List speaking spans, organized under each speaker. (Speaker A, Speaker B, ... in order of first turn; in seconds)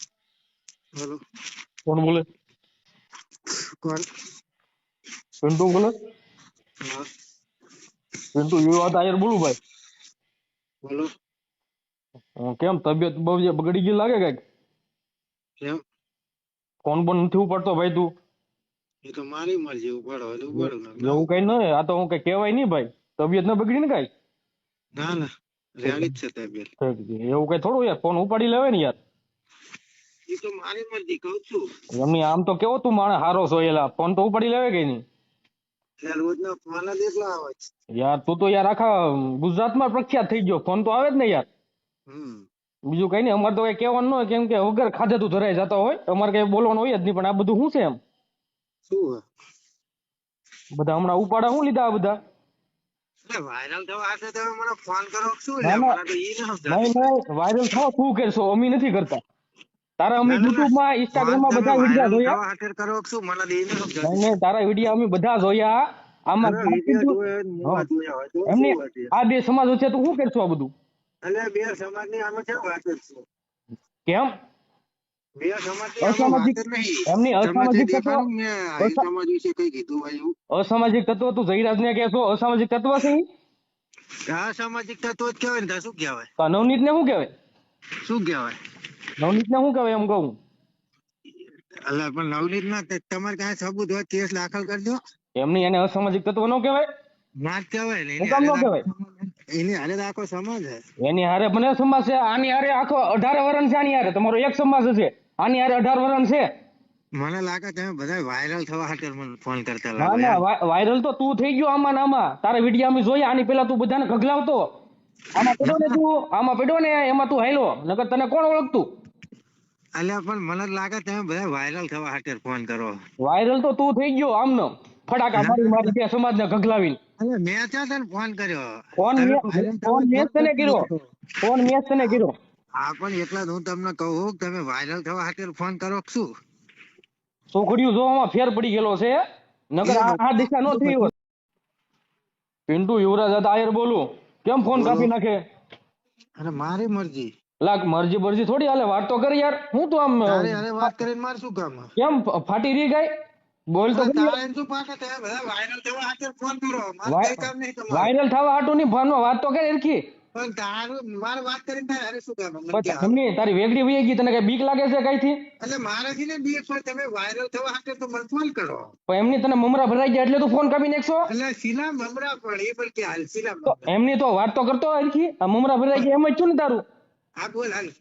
Speaker A: 1.9-2.2, 5.4-6.0, 8.3-9.6, 12.4-14.4, 16.8-18.1, 20.5-24.1, 25.9-26.1, 26.8-29.0, 31.9-35.0, 38.0-41.5, 42.9-48.0, 50.7-52.2, 55.6-56.0, 56.7-59.2, 60.0-62.4, 64.0-67.8, 68.5-70.7, 74.1-74.3, 76.0-78.3, 78.8-79.0, 80.5-83.2, 86.4-87.3, 89.2-90.4, 95.4-96.8, 98.2-98.8, 101.0-106.5, 110.0-114.7, 115.3-118.9, 123.2-127.0, 129.0-130.9, 131.4-132.3, 137.5-139.2, 139.7-141.1, 142.7-145.4, 147.6-150.9, 152.0-153.1, 153.7-154.4, 157.1-160.0, 162.7-165.4, 169.1-171.3, 173.7-176.8
Speaker B: 19.0-21.4, 25.0-26.7, 30.3-31.7, 36.0-37.7, 42.1-42.5, 48.9-49.2, 53.3-57.1, 60.2-64.2, 66.4-69.1, 71.2-73.2, 75.4-80.3, 84.3-86.3, 88.0-88.5, 91.9-95.0, 97.4-100.8, 107.2-110.4, 115.5-116.0, 120.0-123.0, 125.3-125.9, 127.2-131.0, 132.8-136.3, 139.8-141.1, 144.7-145.1, 146.4-147.3, 150.2-151.9, 153.9-158.1, 160.3-163.1, 165.6-168.9, 171.3-173.9, 177.4-177.9